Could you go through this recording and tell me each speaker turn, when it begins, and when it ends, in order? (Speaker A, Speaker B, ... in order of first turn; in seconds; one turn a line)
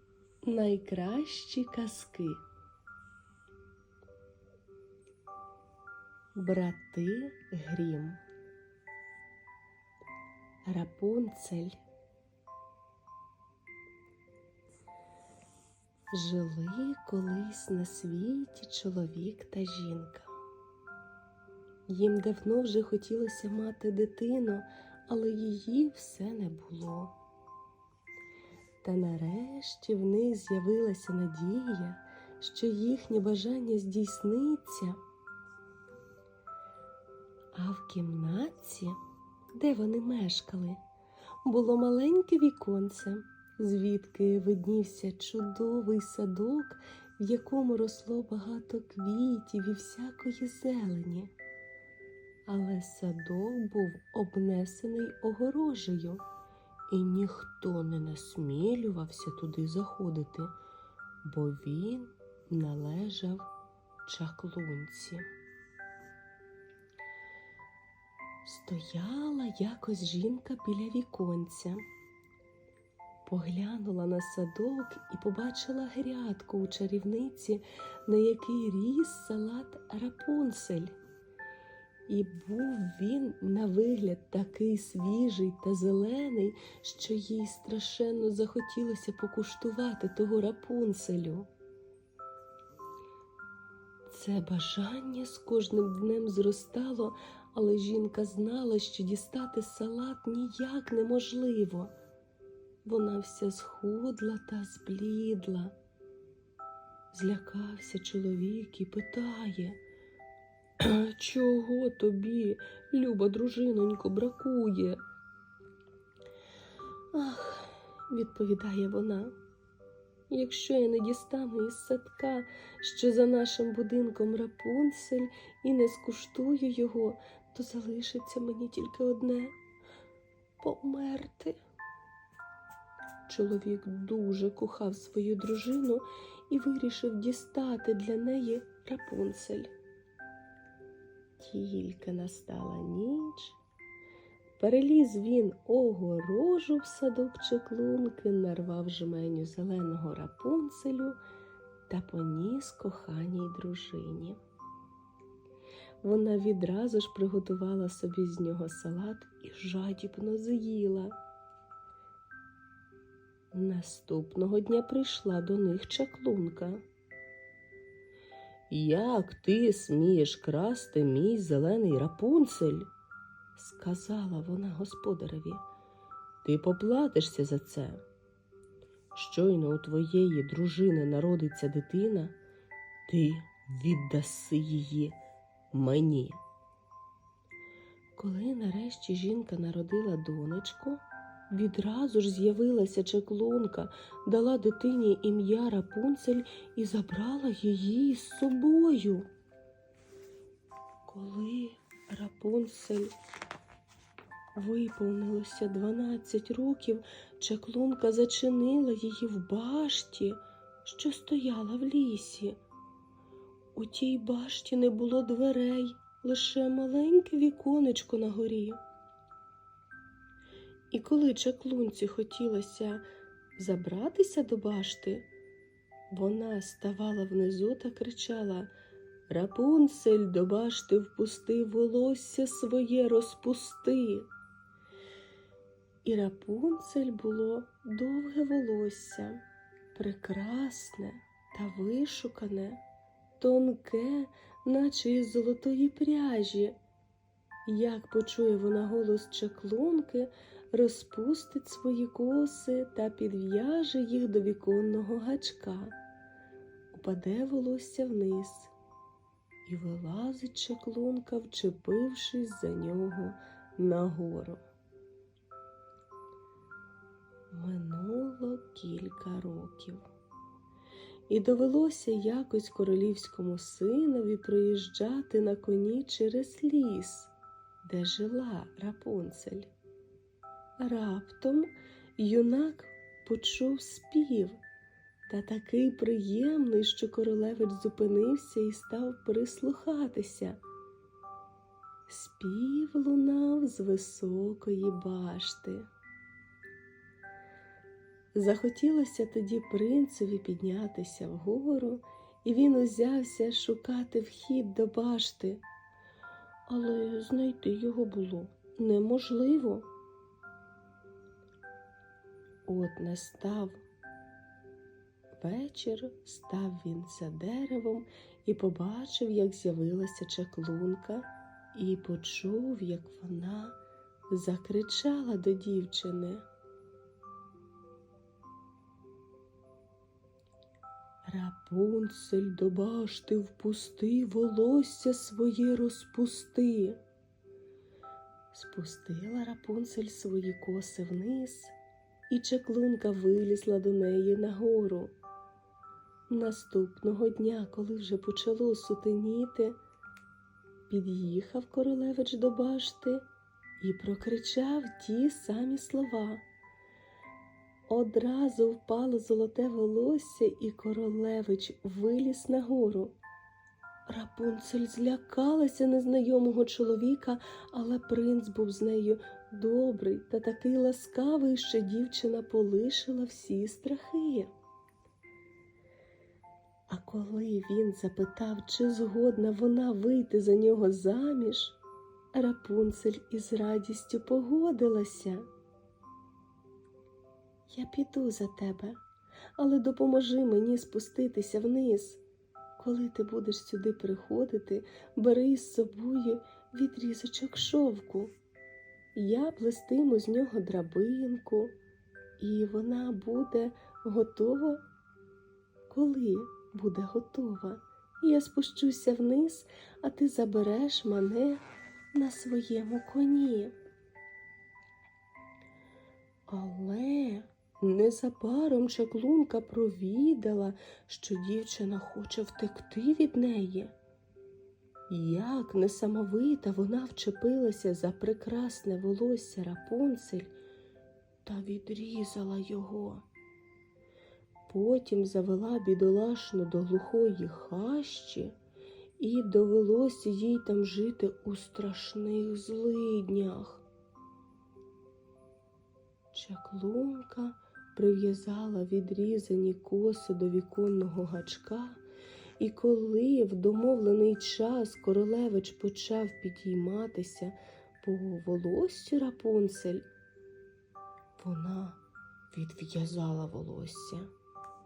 Speaker A: 0.5-2.4
Speaker A: 6.4-8.2
Speaker A: 10.7-11.8
Speaker A: 16.1-20.3
Speaker A: 21.9-27.1
Speaker A: 28.8-35.0
Speaker A: 37.5-39.0
Speaker A: 39.5-40.8
Speaker A: 41.5-51.3
Speaker A: 52.5-56.2
Speaker A: 56.9-60.5
Speaker A: 61.2-63.5
Speaker A: 64.0-65.3
Speaker A: 68.5-71.8
Speaker A: 73.3-81.0
Speaker A: 82.1-91.5
Speaker A: 94.1-101.9
Speaker A: 102.8-105.8
Speaker A: 107.1-109.8
Speaker A: 110.8-115.0
Speaker A: 117.1-119.3
Speaker A: 120.3-129.6
Speaker A: 130.6-131.6
Speaker A: 133.3-139.7
Speaker A: 141.4-143.6
Speaker A: 144.6-151.2
Speaker A: 151.9-154.4
Speaker A: 156.0-161.2
Speaker A: 163.5-166.8
Speaker A: 168.7-172.9
Speaker A: 173.6-175.6
Speaker A: 176.4-178.0
Speaker A: 179.1-182.3
Speaker A: 183.1-185.2
Speaker A: 185.7-186.4
Speaker A: 188.2-199.3
Speaker A: 201.1-203.1
Speaker A: 204.6-212.6
Speaker A: 213.8-218.8
Speaker A: 220.9-223.1
Speaker A: 223.6-225.3
Speaker A: 226.1-228.7
Speaker A: 229.3-234.3
Speaker A: 236.0-239.4
Speaker A: 239.9-242.8
Speaker A: 243.4-246.8
Speaker A: 247.7-256.0
Speaker A: 256.9-258.7
Speaker A: 259.7-264.6
Speaker A: 267.5-270.0
Speaker A: 271.3-279.7
Speaker A: 280.8-284.6
Speaker A: 285.3-290.6
Speaker A: 292.1-295.9
Speaker A: 298.3-305.6
Speaker A: 306.7-309.9
Speaker A: 312.6-313.8
Speaker A: 315.4-323.8
Speaker A: 324.3-326.5
Speaker A: 331.3-337.0
Speaker A: 338.5-341.8
Speaker A: 342.3-345.1
Speaker A: 346.3-349.8
Speaker A: 350.9-353.3
Speaker A: 353.8-356.4
Speaker A: 357.9-363.2
Speaker A: 364.1-374.5
Speaker A: 376.9-381.8
Speaker A: 382.3-385.5
Speaker A: 387.7-389.0
Speaker A: 389.6-392.2
Speaker A: 392.8-398.3
Speaker A: 399.1-401.7
Speaker A: 402.4-404.8
Speaker A: 405.9-413.7
Speaker A: 416.5-423.9
Speaker A: 425.1-430.5
Speaker A: 431.4-433.2
Speaker A: 434.7-438.5
Speaker A: 439.2-443.9
Speaker A: 446.3-452.0
Speaker A: 452.6-460.1
Speaker A: 461.4-464.3